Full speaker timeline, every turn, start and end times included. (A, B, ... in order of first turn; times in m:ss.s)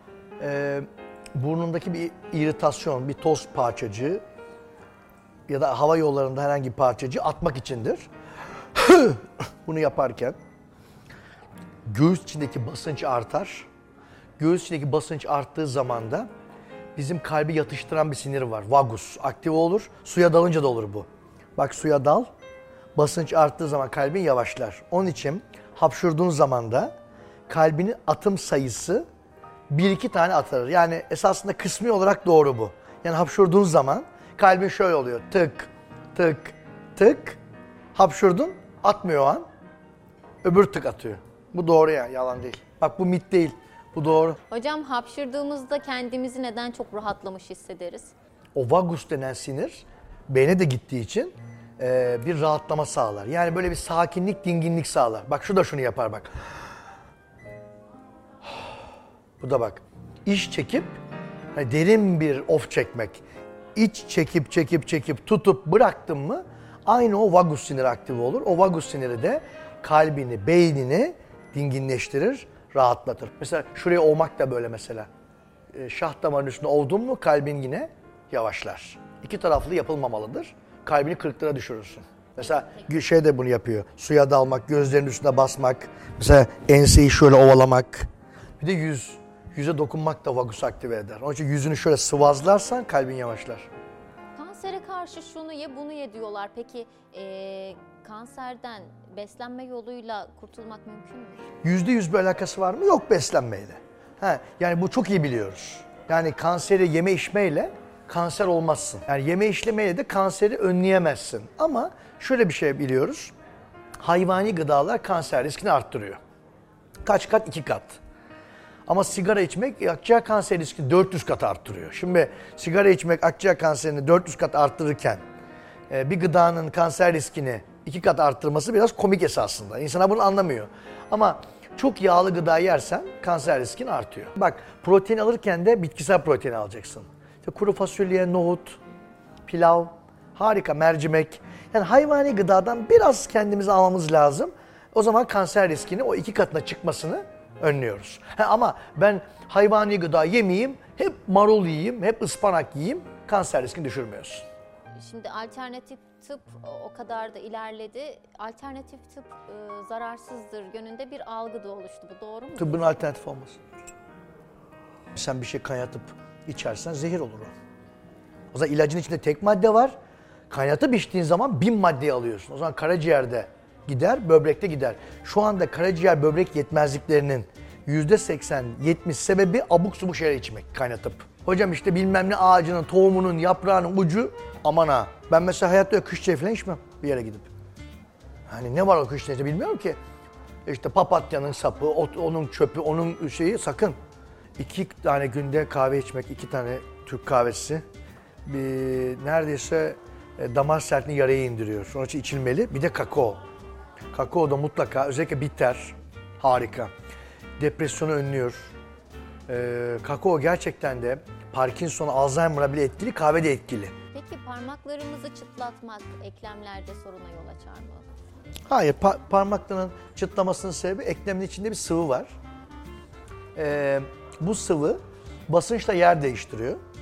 0:00.4-0:04.2 A
0:05.5-0:08.1 A
0:08.7-0:10.4 A
0:11.8-0:13.7 A
0:14.4-0:16.3 A
0:17.0-0:22.3 A
0:22.9-0:26.9 A
0:27.5-0:29.0 A
0:29.7-0:37.4 A
0:37.9-0:39.4 A
0:40.4-0:44.4 A
0:44.5-0:48.1 B
0:48.5-0:56.3 A
0:59.4-1:00.9 A
1:01.5-1:03.2 A
1:03.7-1:15.1 A
1:15.7-1:28.1 A
1:28.6-1:33.7 A
1:34.3-1:41.4 B
1:41.6-1:53.3 A
1:54.0-1:56.2 A
1:57.0-1:58.0 A
1:58.9-2:05.2 A
2:05.9-2:18.8 A
2:19.4-2:34.4 A
2:35.0-2:43.0 B
2:42.6-2:43.6 A
2:45.2-2:47.5 A
2:48.5-2:49.9 A
2:50.5-3:07.5 A
3:08.5-3:10.0 A
3:10.6-3:14.0 A
3:14.6-3:17.8 A
3:18.4-3:23.4 A
3:24.1-3:26.9 A
3:27.6-3:28.7 A
3:29.5-3:33.9 A
3:34.1-3:38.0 B
3:38.7-3:42.3 A
3:43.5-3:46.8 A